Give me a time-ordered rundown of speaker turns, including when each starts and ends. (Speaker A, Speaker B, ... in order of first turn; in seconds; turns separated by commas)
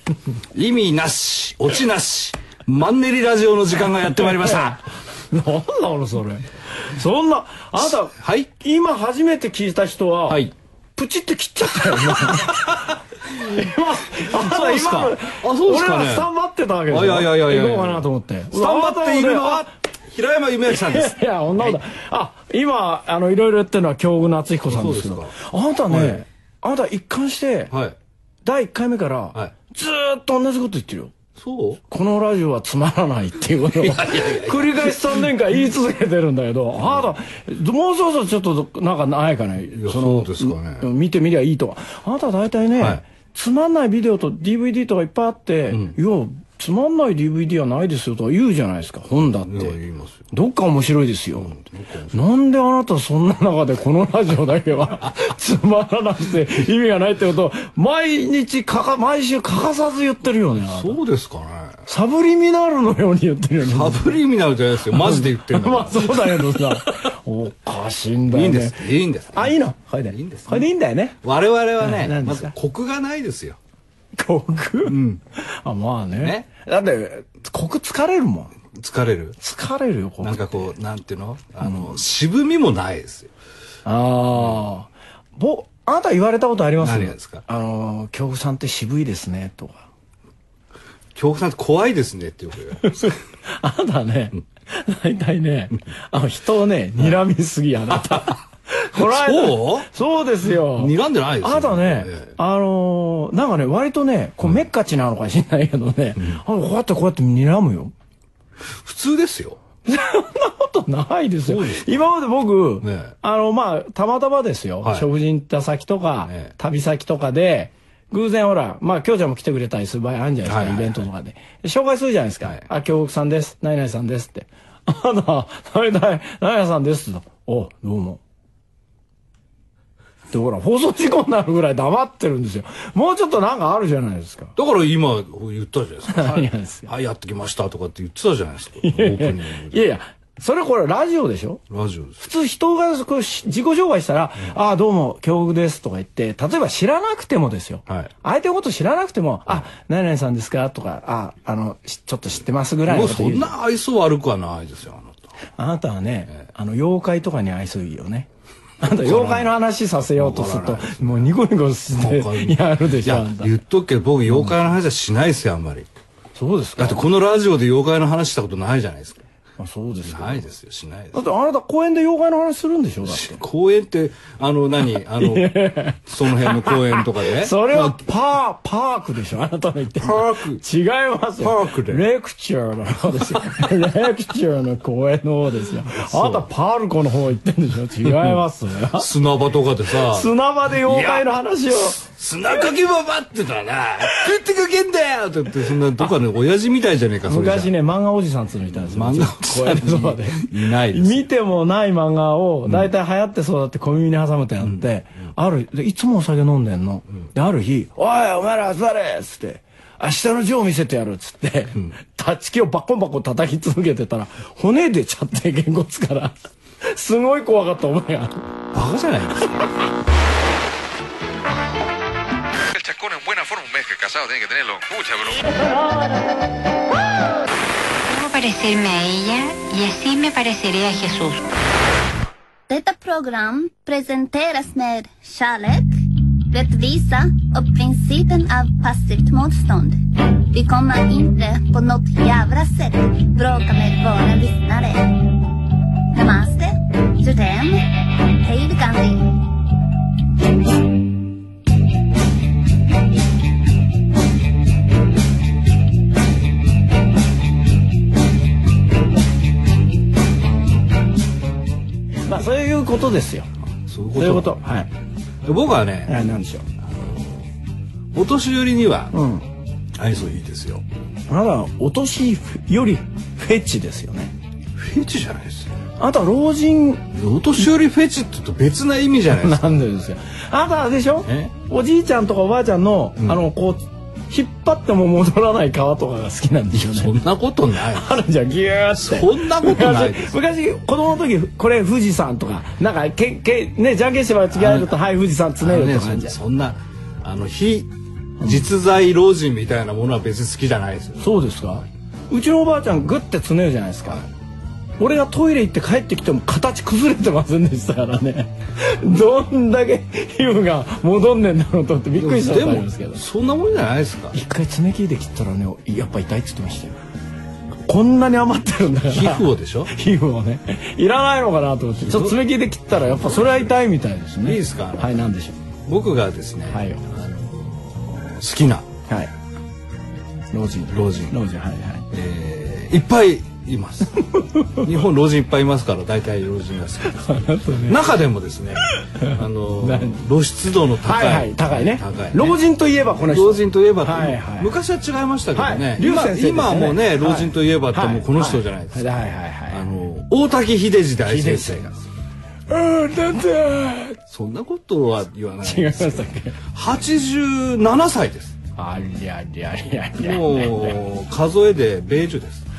Speaker A: 0.5-4.8, Speaker B: 4.3-19.7, Speaker A: 7.8-8.5, Speaker A: 10.3-10.5, Speaker A: 14.1-16.3, Speaker A: 16.9-21.8, Speaker B: 20.8-27.7, Speaker A: 24.7-25.3, Speaker A: 25.9-26.2, Speaker A: 27.7-28.0, Speaker B: 28.4-31.1, Speaker A: 31.4-31.8, Speaker B: 31.9-49.8, Speaker A: 33.8-35.3, Speaker A: 36.8-37.1, Speaker A: 39.8-40.9, Speaker A: 45.7-46.0, Speaker A: 49.5-50.2, Speaker B: 50.3-51.6, Speaker A: 51.4-52.2, Speaker B: 52.1-61.0, Speaker A: 60.7-61.8, Speaker B: 61.9-64.2, Speaker A: 63.6-66.9, Speaker B: 64.9-71.2, Speaker A: 68.3-69.6, Speaker A: 70.1-70.7, Speaker A: 71.2-73.6, Speaker B: 71.8-72.5, Speaker B: 74.2-78.5, Speaker A: 74.8-75.2, Speaker A: 76.2-76.5, Speaker A: 78.7-79.4, Speaker B: 79.4-80.7, Speaker A: 80.2-83.3, Speaker B: 81.6-82.0, Speaker B: 83.9-89.8, Speaker A: 84.3-84.6, Speaker A: 86.8-87.5, Speaker A: 91.2-93.1, Speaker B: 92.8-107.9, Speaker A: 97.9-98.4, Speaker A: 99.0-99.9, Speaker A: 100.6-102.3, Speaker A: 108.8-109.6, Speaker B: 109.9-128.2, Speaker A: 111.5-111.9, Speaker A: 112.8-113.1, Speaker A: 116.3-116.5, Speaker A: 120.5-121.1, Speaker B: 130.3-134.5, Speaker A: 134.6-139.8, Speaker B: 136.1-136.9, Speaker B: 138.8-141.6, Speaker A: 141.7-142.2, Speaker B: 142.2-153.5, Speaker A: 152.9-155.3, Speaker B: 155.6-158.3, Speaker B: 158.8-163.5, Speaker A: 158.9-159.5, Speaker A: 160.1-161.3, Speaker A: 161.9-165.9, Speaker B: 164.3-164.6, Speaker B: 166.3-167.0, Speaker A: 166.8-169.2, Speaker B: 169.6-170.5, Speaker A: 170.0-171.2, Speaker B: 171.1-173.4, Speaker A: 173.0-175.5, Speaker B: 175.2-189.1, Speaker A: 176.1-178.0, Speaker A: 180.0-180.6, Speaker A: 181.4-182.0, Speaker A: 185.9-186.4, Speaker A: 188.1-188.4, Speaker A: 188.9-197.7, Speaker B: 189.9-192.0, Speaker B: 197.2-218.5, Speaker A: 198.7-201.3, Speaker A: 218.7-219.7, Speaker C: 222.8-225.3, Speaker B: 225.5-226.2, Speaker D: 228.1-231.4, Speaker E: 232.7-245.2, Speaker E: 246.1-249.3, Speaker B: 262.2-263.5, Speaker A: 263.9-264.6, Speaker B: 264.1-264.9, Speaker A: 265.4-266.2, Speaker B: 266.1-266.6, Speaker A: 266.8-267.4, Speaker A: 268.1-269.2, Speaker B: 269.1-269.4, Speaker A: 270.0-270.8, Speaker B: 271.3-274.3, Speaker A: 274.8-275.8, Speaker B: 276.0-277.1, Speaker A: 277.1-279.6, Speaker B: 279.3-287.2, Speaker A: 281.3-281.5, Speaker A: 286.7-288.1, Speaker B: 287.8-296.4, Speaker A: 288.9-290.3, Speaker A: 294.6-294.9, Speaker A: 295.6-301.3, Speaker B: 298.4-298.7, Speaker B: 301.2-304.2, Speaker B: 305.0-313.2, Speaker A: 312.2-314.4, Speaker B: 314.3-317.0, Speaker B: 317.9-325.6, Speaker A: 319.1-319.9, Speaker A: 322.0-322.4, Speaker A: 323.0-323.8, Speaker A: 324.4-325.2, Speaker A: 325.8-328.9, Speaker B: 326.7-327.0, Speaker B: 330.5-332.0, Speaker A: 330.9-331.3, Speaker A: 332.1-334.2, Speaker B: 334.3-334.7, Speaker A: 334.8-342.6, Speaker B: 337.1-338.0, Speaker B: 339.2-340.2, Speaker B: 340.9-344.7, Speaker A: 343.3-352.0, Speaker B: 345.5-350.1, Speaker B: 351.2-351.9, Speaker B: 352.7-354.2, Speaker A: 354.3-358.6, Speaker B: 355.6-356.6, Speaker B: 358.8-361.0, Speaker A: 360.2-362.6